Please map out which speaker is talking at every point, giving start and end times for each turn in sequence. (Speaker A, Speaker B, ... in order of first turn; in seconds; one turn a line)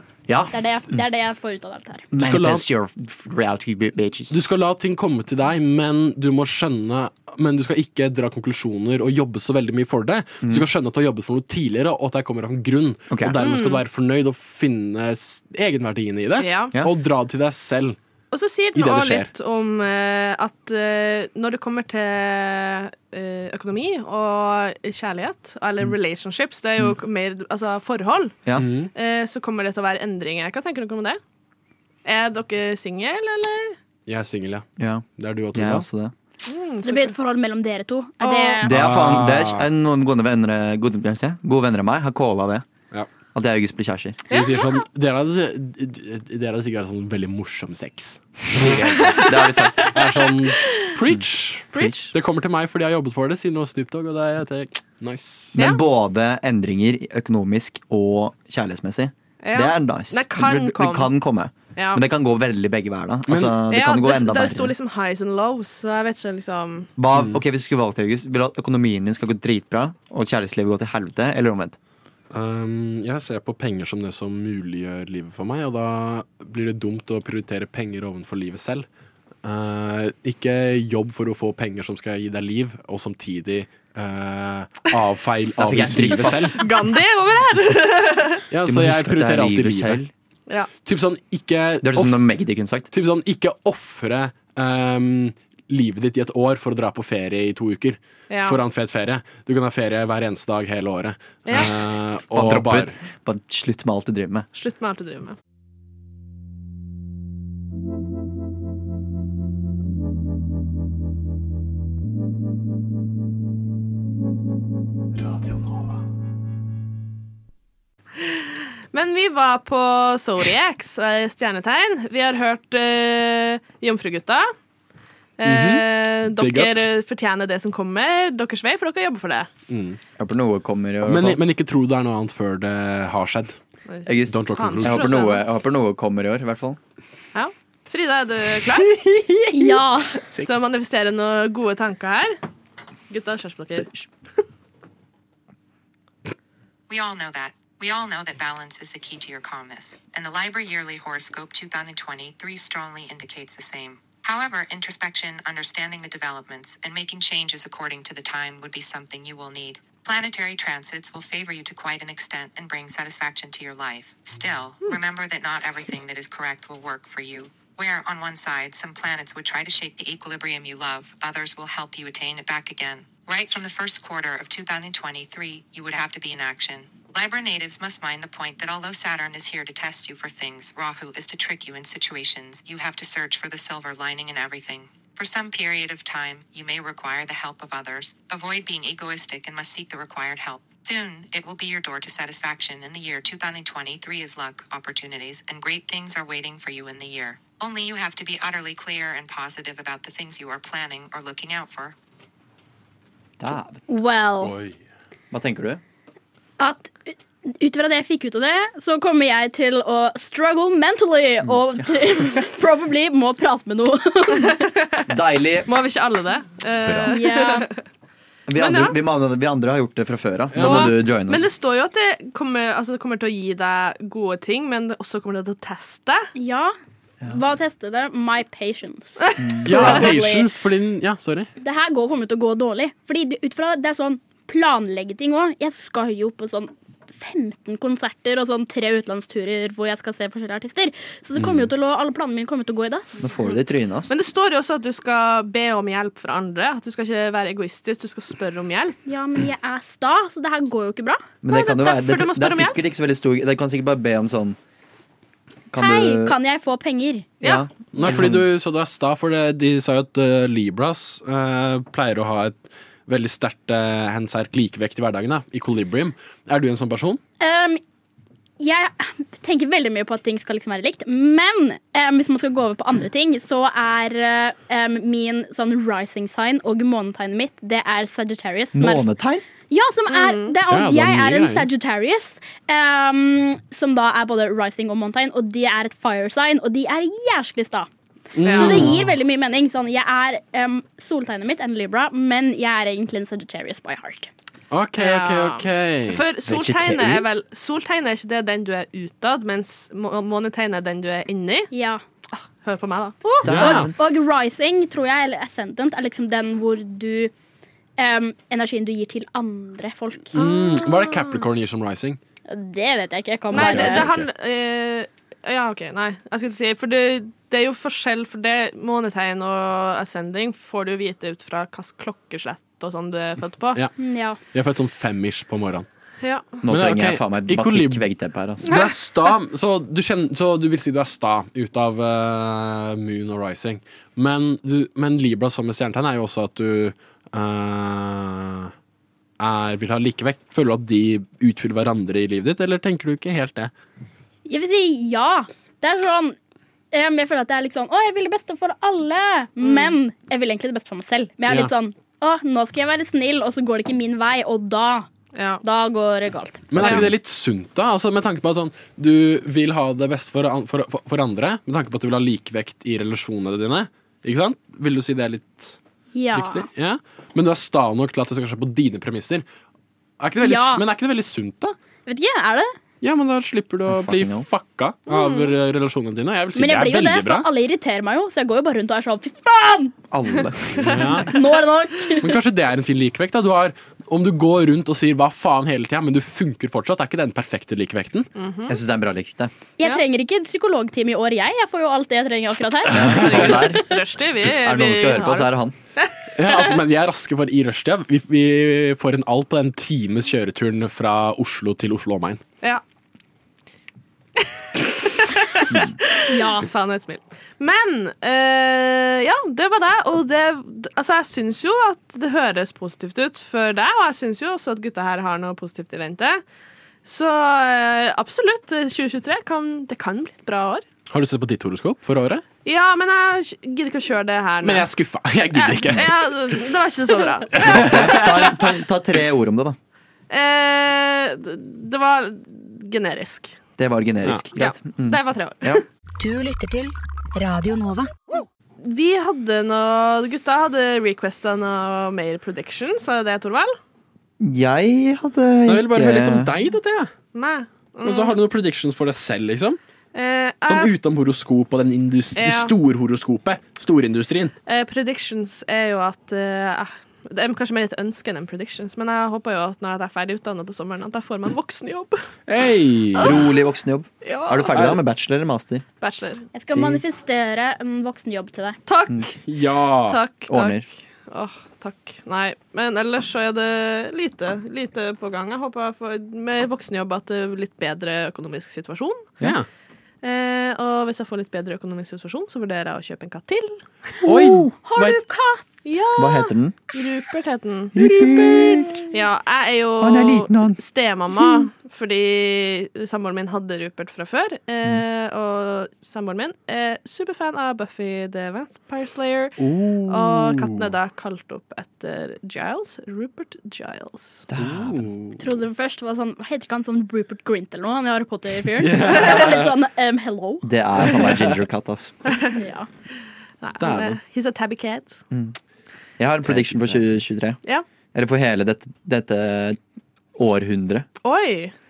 Speaker A: 0.3-1.0
Speaker B: 0.5-2.1
Speaker A: 2.1-4.4
Speaker C: 2.2-2.6
Speaker C: 4.3-18.0
Speaker A: 13.1-13.4
Speaker D: 13.4-13.8
Speaker D: 16.4-16.8
Speaker D: 18.3-31.2
Speaker C: 18.8-19.3
Speaker C: 28.6-28.9
Speaker D: 32.0-33.8
Speaker C: 34.1-35.9
Speaker A: 34.8-36.1
Speaker D: 36.5-37.1
Speaker B: 36.8-38.7
Speaker D: 38.2-38.7
Speaker A: 38.6-42.6
Speaker C: 38.7-39.7
Speaker A: 43.4-44.2
Speaker D: 44.3-44.8
Speaker C: 44.3-49.2
Speaker A: 48.6-49.9
Speaker D: 48.8-50.9
Speaker C: 49.9-55.6
Speaker D: 51.7-52.1
Speaker D: 55.5-55.8
Speaker A: 55.5-64.7
Speaker D: 59.4-61.1
Speaker D: 61.8-62.0
Speaker C: 63.3-63.5
Speaker D: 63.7-66.9
Speaker A: 67.0-71.8
Speaker C: 72.3-78.9
Speaker C: 79.4-86.6
Speaker A: 85.6-86.6
Speaker D: 86.3-88.4
Speaker C: 88.5-90.0
Speaker A: 88.7-90.1
Speaker C: 90.8-92.2
Speaker A: 91.8-92.9
Speaker C: 92.9-103.0
Speaker D: 98.3-98.6
Speaker D: 101.5-101.8
Speaker A: 102.3-104.5
Speaker D: 104.5-105.4
Speaker D: 118.2-124.5
Speaker D: 125.4-129.5
Speaker C: 125.5-126.8
Speaker C: 129.7-130.0
Speaker A: 130.2-131.4
Speaker C: 131.1-133.6
Speaker D: 133.9-135.4
Speaker A: 134.1-136.8
Speaker C: 134.3-135.1
Speaker D: 137.3-139.0
Speaker B: 139.5-140.2
Speaker C: 140.3-140.7
Speaker D: 140.4-142.4
Speaker D: 143.1-143.9
Speaker A: 143.7-144.1
Speaker E: 146.9-201.9
Speaker A: 203.4-203.8
Speaker B: 203.9-204.6
Speaker C: 204.4-204.8
Speaker A: 205.3-205.8
Speaker B: 206.6-214.7
Speaker A: 211.4-211.9
Speaker D: 214.4-215.1
Speaker A: 215.1-215.7
Speaker D: 215.7-217.8
Speaker A: 216.8-217.1
Speaker B: 217.1-217.7
Speaker A: 218.5-221.5
Speaker D: 218.6-219.0
Speaker C: 220.5-220.9
Speaker D: 220.6-226.3
Speaker B: 226.4-226.7
Speaker B: 227.3-230.5
Speaker D: 229.3-229.8
Speaker A: 229.4-230.0
Speaker C: 229.7-231.5
Speaker B: 231.6-243.3
Speaker C: 241.4-241.7
Speaker A: 243.2-244.1
Speaker D: 244.1-249.0
Speaker B: 249.1-251.2
Speaker A: 251.4-254.6
Speaker D: 251.5-252.8
Speaker A: 255.7-256.4
Speaker B: 255.8-257.3
Speaker D: 257.4-257.7
Speaker A: 257.4-258.5
Speaker C: 257.9-267.2
Speaker B: 267.4-267.8
Speaker B: 268.6-279.1
Speaker A: 278.8-279.4
Speaker B: 279.7-287.9
Speaker D: 280.1-280.6
Speaker C: 280.7-281.7
Speaker C: 288.3-289.1
Speaker D: 288.4-288.8
Speaker B: 288.5-294.3
Speaker C: 294.7-297.4
Speaker D: 295.0-301.7
Speaker B: 301.7-302.0
Speaker D: 302.3-303.7
Speaker A: 303.4-303.9
Speaker C: 303.5-303.9
Speaker B: 303.6-307.3
Speaker B: 308.0-310.4
Speaker C: 310.3-312.2
Speaker D: 310.4-311.4
Speaker B: 312.5-314.1
Speaker C: 313.5-314.3
Speaker D: 313.5-323.8
Speaker B: 324.0-324.4
Speaker C: 324.5-325.9
Speaker D: 326.2-326.6
Speaker A: 326.6-328.7
Speaker C: 326.7-328.1
Speaker C: 328.6-338.7
Speaker D: 328.7-329.0
Speaker C: 339.4-343.7
Speaker B: 344.5-346.4
Speaker B: 346.9-355.1
Speaker D: 349.6-349.9
Speaker D: 355.3-355.6
Speaker B: 355.6-357.0
Speaker C: 356.7-365.8
Speaker D: 356.8-357.1
Speaker B: 366.1-366.7
Speaker C: 366.3-369.5
Speaker C: 370.2-371.8
Speaker B: 370.4-370.8
Speaker B: 372.1-372.8
Speaker C: 373.0-377.5
Speaker A: 373.9-374.5
Speaker D: 375.1-375.5
Speaker B: 376.6-379.9
Speaker A: 380.1-381.1
Speaker C: 380.8-381.3
Speaker B: 381.2-382.4
Speaker C: 382.2-388.3
Speaker D: 388.4-388.8
Speaker A: 388.7-389.5
Speaker B: 389.8-393.7
Speaker A: 392.9-393.8
Speaker C: 392.9-393.7
Speaker D: 393.2-396.8
Speaker A: 394.5-395.8
Speaker C: 396.4-402.4
Speaker D: 405.1-416.4
Speaker B: 406.3-406.7
Speaker D: 417.1-420.9
Speaker C: 421.1-422.4
Speaker D: 422.6-424.9
Speaker C: 424.6-426.6
Speaker D: 425.5-428.2
Speaker C: 427.5-428.6
Speaker A: 427.6-429.8
Speaker D: 430.3-433.5
Speaker A: 433.8-435.8
Speaker D: 434.6-435.8
Speaker F: 436.2-438.1
Speaker D: 438.8-443.8
Speaker A: 444.4-446.5
Speaker C: 445.7-447.1
Speaker D: 447.3-448.4
Speaker C: 448.0-449.8
Speaker D: 450.1-450.9
Speaker C: 450.7-454.5
Speaker D: 452.4-452.7
Speaker D: 454.7-462.2
Speaker C: 462.5-463.3
Speaker D: 463.1-463.5
Speaker A: 463.2-465.8
Speaker D: 464.2-464.9
Speaker D: 466.0-466.5
Speaker B: 466.6-468.8
Speaker A: 466.7-467.0
Speaker D: 468.9-469.4
Speaker C: 469.5-470.2
Speaker D: 470.1-479.3
Speaker A: 470.5-470.9
Speaker C: 479.4-479.7
Speaker D: 480.2-483.8
Speaker A: 484.2-484.7
Speaker C: 484.2-485.2
Speaker B: 484.8-485.6
Speaker D: 485.9-488.0
Speaker A: 486.2-486.8
Speaker A: 487.9-489.0
Speaker D: 489.1-504.5
Speaker A: 490.0-490.8
Speaker A: 499.6-500.6
Speaker A: 504.5-505.1
Speaker C: 504.6-505.4
Speaker B: 505.4-510.7
Speaker C: 508.8-509.7
Speaker A: 510.6-512.1
Speaker B: 512.5-512.9
Speaker D: 513.6-515.2
Speaker C: 513.8-514.2
Speaker A: 515.3-515.6
Speaker A: 516.2-517.6
Speaker C: 516.5-516.8
Speaker A: 518.1-519.8
Speaker A: 520.4-521.1
Speaker D: 521.2-521.7